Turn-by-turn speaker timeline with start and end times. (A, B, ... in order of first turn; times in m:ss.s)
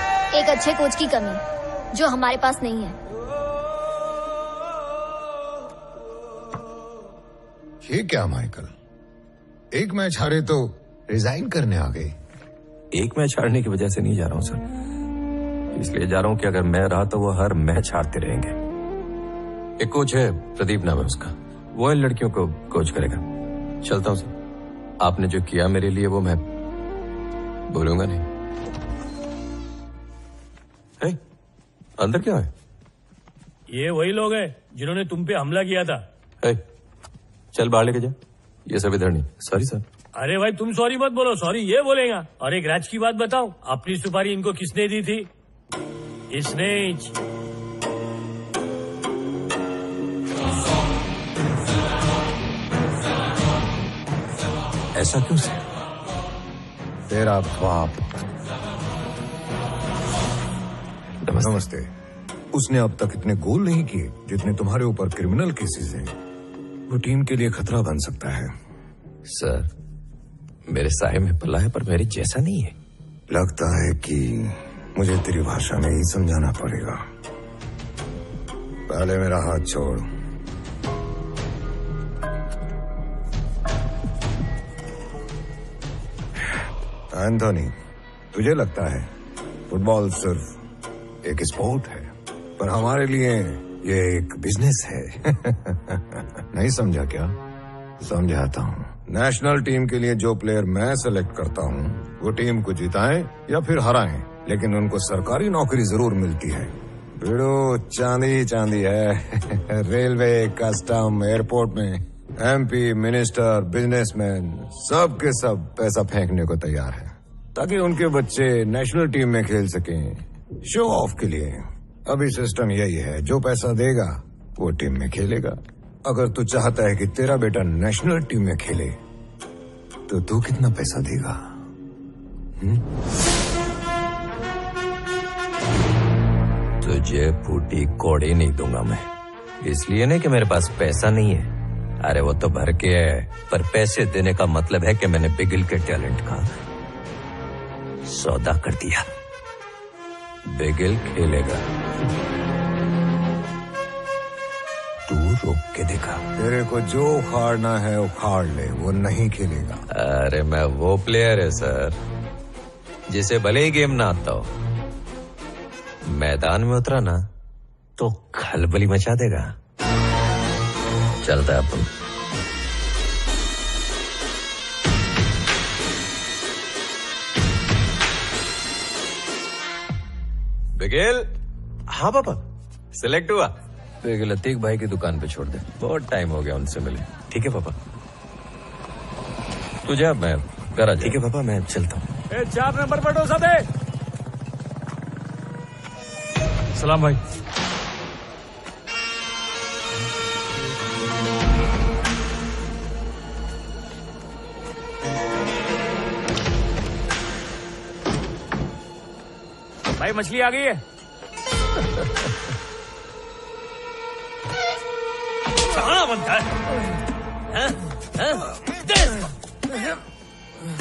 0:00.3-0:01.4 A
0:01.9-0:03.0 A
0:07.8-0:08.7 B
0:09.7-0:12.1 B
0:12.9-0:14.6 C
0:15.7-0:18.6 C
0:19.8-0:23.2 C
0:23.8-0:24.3 C
0:25.0-0:26.4 C
0:27.7-0:28.2 C
0:32.0-0:32.5 C
0:33.7-0:36.0 D
0:37.5-0:39.8 C
0:40.1-0:45.3 D
0:46.3-0:47.2 D
0:54.9-0:55.6 C
0:57.1-0:58.1 B
1:01.2-1:01.6 C
1:01.3-1:01.9 B
1:02.5-1:06.1 B
1:06.9-1:08.5 B
1:09.2-1:09.7 C
1:10.7-1:12.7 C
1:13.3-1:17.0 B
1:18.9-1:20.0 B
1:27.1-1:27.7 B
1:28.3-1:29.1 B
1:29.7-1:30.6 B
1:31.2-1:37.3 B
1:38.0-2:09.0 B
2:10.1-2:11.4 B
2:16.8-2:19.1 C
2:19.6-2:26.4 C
2:28.0-2:29.1 C
2:30.4-2:31.6 C
2:35.1-2:36.2 C
2:36.4-2:39.8 B
2:39.9-2:42.0 C
2:43.1-2:44.5 C
2:46.0-2:47.2 C
2:48.0-2:49.5 C
2:51.2-2:51.9 C
3:00.8-3:01.3 C
3:01.9-3:02.4 C
3:02.9-3:07.8 C
3:09.8-3:12.1 C
3:12.3-3:13.7 D
3:16.7-3:17.2 D
3:30.0-3:30.8 D
3:35.7-3:36.5 D
3:37.6-3:38.5 D